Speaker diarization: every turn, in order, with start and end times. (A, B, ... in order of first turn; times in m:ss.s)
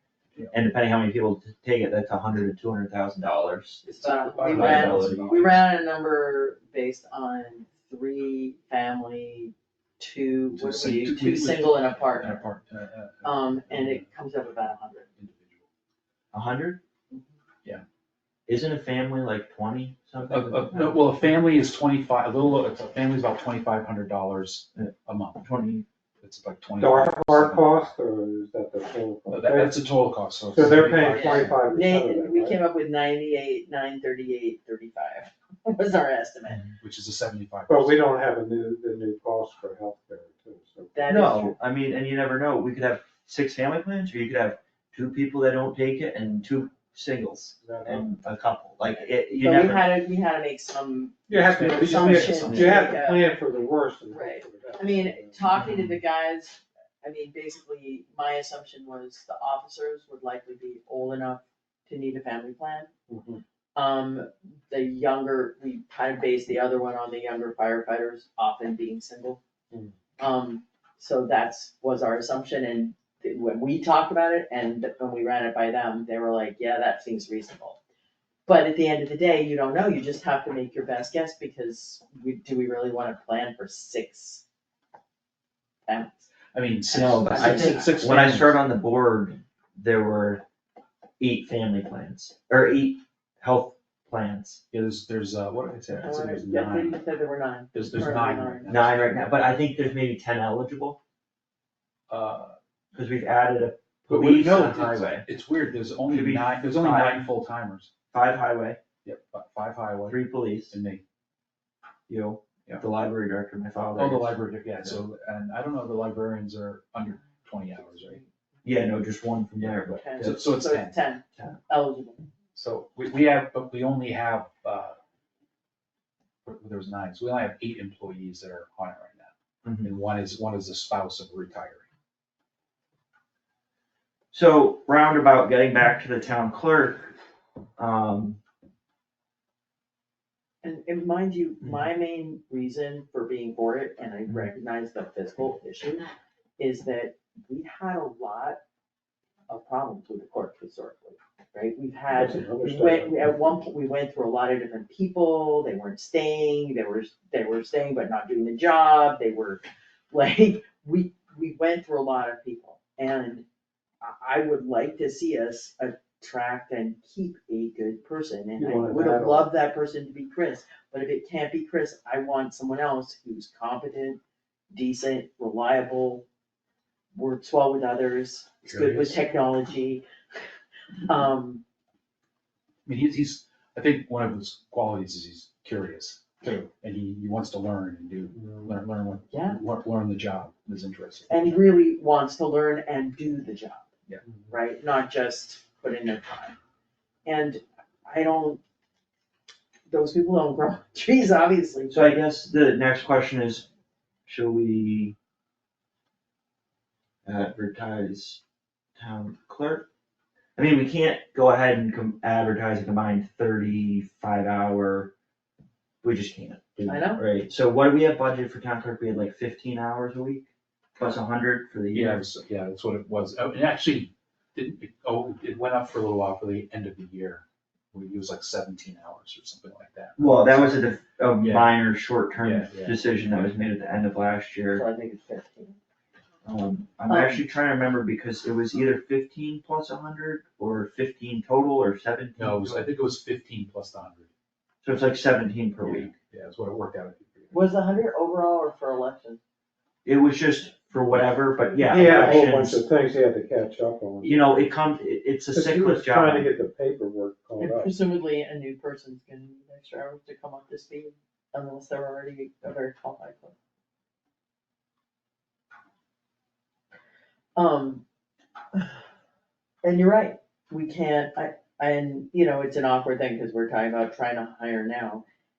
0:00.5-0:03.8 A
0:03.8-0:12.4 B
0:04.0-0:05.7 C
0:04.4-0:05.4 A
0:10.5-0:14.1 C
0:13.2-0:15.1 B
0:15.2-0:15.6 C
0:16.3-0:16.8 A
0:18.5-0:21.0 A
0:20.2-0:25.5 C
0:24.8-0:25.8 A
0:26.2-0:27.9 C
0:26.8-0:29.8 D
0:29.3-0:31.6 C
0:30.5-0:32.6 D
0:31.0-0:36.7 B
0:36.7-0:38.0 C
0:37.7-0:41.0 D
0:40.9-0:41.5 B
0:41.1-0:49.8 A
0:47.6-0:48.1 D
0:49.4-0:53.2 B
0:51.3-0:55.4 D
0:51.3-0:52.9 C
0:54.1-1:02.9 B
0:55.5-0:56.0 A
1:03.1-1:03.4 D
1:03.7-1:09.4 B
1:10.2-1:17.8 B
1:18.4-1:24.4 B
1:25.9-1:26.3 B
1:26.5-1:28.6 C
1:26.9-1:30.4 A
1:27.2-1:27.9 B
1:31.2-1:34.6 A
1:34.7-1:37.0 C
1:35.9-1:38.7 B
1:37.7-1:39.9 C
1:38.7-1:41.0 A
1:42.1-1:42.6 C
1:42.9-1:45.2 A
1:44.1-1:47.9 C
1:46.1-1:47.3 A
1:48.1-1:48.8 A
1:49.0-1:51.0 C
1:50.0-1:50.8 A
1:52.1-1:55.0 A
1:54.0-1:58.2 C
1:57.8-1:58.2 B
1:58.6-2:00.5 A
1:59.6-2:01.0 C
2:00.0-2:02.3 B
2:02.5-2:05.0 C
2:06.4-2:09.3 C
2:09.6-2:09.9 A
2:09.8-2:11.8 C
2:14.3-2:17.2 A
2:17.8-2:18.4 A
2:20.6-2:26.1 B
2:26.6-2:28.6 B
2:29.5-2:43.4 B
2:32.1-2:33.3 D
2:44.0-2:54.2 B
2:48.6-2:49.5 D
2:54.7-2:56.2 B
2:57.1-3:00.0 B
2:58.6-2:59.2 C
3:01.0-3:01.6 B
3:02.8-3:11.5 C
3:08.3-3:08.7 D
3:09.3-3:09.6 B
3:11.3-3:13.9 B
3:14.5-3:16.6 B
3:17.2-3:18.6 B
3:19.9-3:22.2 B
3:21.9-3:23.7 A
3:24.2-3:25.1 A
3:27.2-3:28.4 A
3:29.0-3:29.8 A
3:30.6-3:35.1 A
3:36.0-3:42.2 A
3:36.8-3:37.2 B
3:41.9-3:50.6 C
3:50.2-3:54.8 A
3:51.4-3:51.8 C
3:52.4-3:53.7 C
3:54.7-3:55.8 B
3:56.4-4:02.8 A
3:57.1-3:57.4 B
4:02.4-4:04.3 C
4:04.8-4:06.1 A
4:05.8-4:07.6 C
4:07.5-4:09.4 B
4:10.0-4:12.8 A
4:11.7-4:12.4 B
4:11.8-4:14.4 D
4:14.2-4:16.5 A
4:15.5-4:17.9 D
4:17.6-4:23.5 B
4:27.6-4:28.0 B
4:29.8-4:35.2 B